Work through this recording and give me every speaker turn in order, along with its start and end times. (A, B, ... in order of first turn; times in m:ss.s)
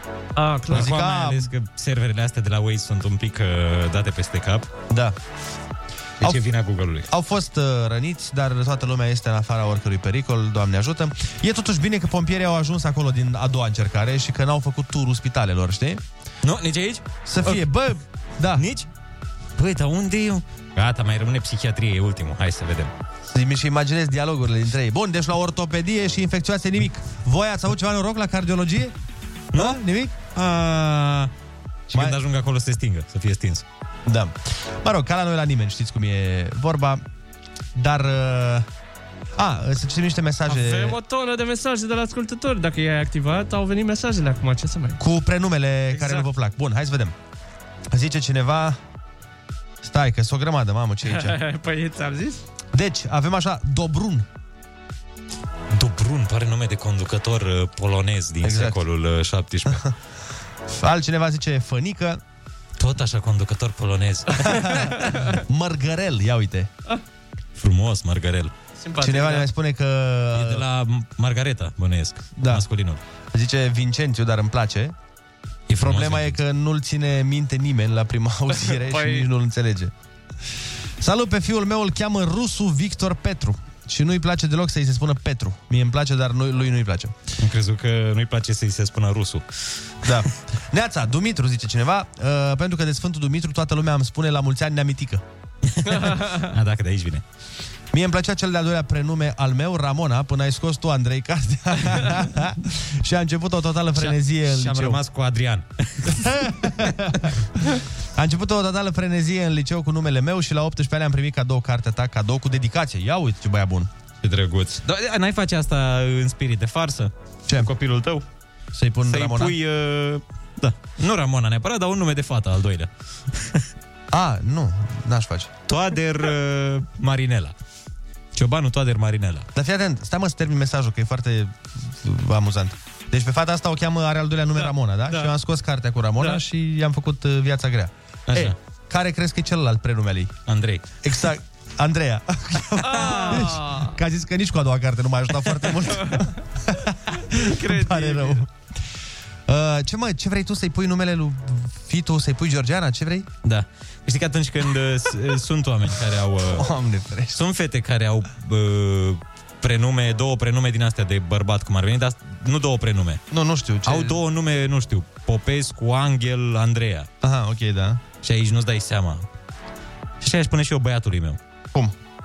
0:00.4-0:01.0 A
0:00.7-0:01.5 B
0:00.7-0:04.7 C
0:04.9-0:05.2 B
0:06.2-0:07.1 C
0:07.1-0:16.0 B
0:16.4-0:17.7 C
0:17.2-0:18.6 B
0:18.6-0:18.9 C
0:19.6-0:22.9 C
0:23.2-0:28.9 B
0:29.5-0:30.2 B
0:30.3-0:31.3 C
0:31.9-0:33.6 C
0:34.0-0:37.0 B
0:37.7-0:38.6 B
0:39.4-0:41.0 B
0:40.5-0:45.0 A
0:45.0-0:47.1 B
0:45.9-0:46.3 A
0:47.9-0:48.8 B
0:49.8-0:51.4 B
0:51.1-0:52.4 A
0:52.7-0:54.2 B
0:55.7-0:59.9 C
0:58.4-0:58.8 B
1:00.7-1:02.2 B
1:02.8-1:04.8 C
1:04.4-1:06.7 B
1:07.6-1:08.5 C
1:08.8-1:09.5 A
1:09.0-1:10.6 B
1:10.3-1:13.0 C
1:12.4-1:12.6 B
1:13.3-1:14.9 B
1:15.7-1:16.4 C
1:15.8-1:19.9 B
1:18.5-1:19.3 A
1:21.0-1:27.1 B
1:27.4-1:29.4 C
1:30.0-1:35.2 B
1:35.7-1:37.2 C
1:35.9-1:36.4 A
1:37.9-1:45.0 B
1:44.0-1:46.9 C
1:46.1-1:47.3 B
1:48.1-1:53.9 B
1:54.2-1:58.2 C
1:58.7-1:59.6 B
1:59.0-2:03.6 C
2:04.1-2:05.5 B
2:05.7-2:07.5 C
2:08.3-2:09.5 C
2:09.5-2:20.3 B
2:18.3-2:18.6 C
2:20.5-2:20.8 C
2:21.0-2:28.5 B
2:22.8-2:23.9 A
2:27.4-2:28.4 A
2:29.5-2:33.3 B
2:33.4-2:36.7 C
2:36.5-2:37.4 B
2:37.3-2:43.2 C
2:43.3-2:44.2 B
2:43.8-2:47.1 C
2:47.2-2:48.0 B
2:48.2-2:49.2 C
2:50.2-2:51.4 C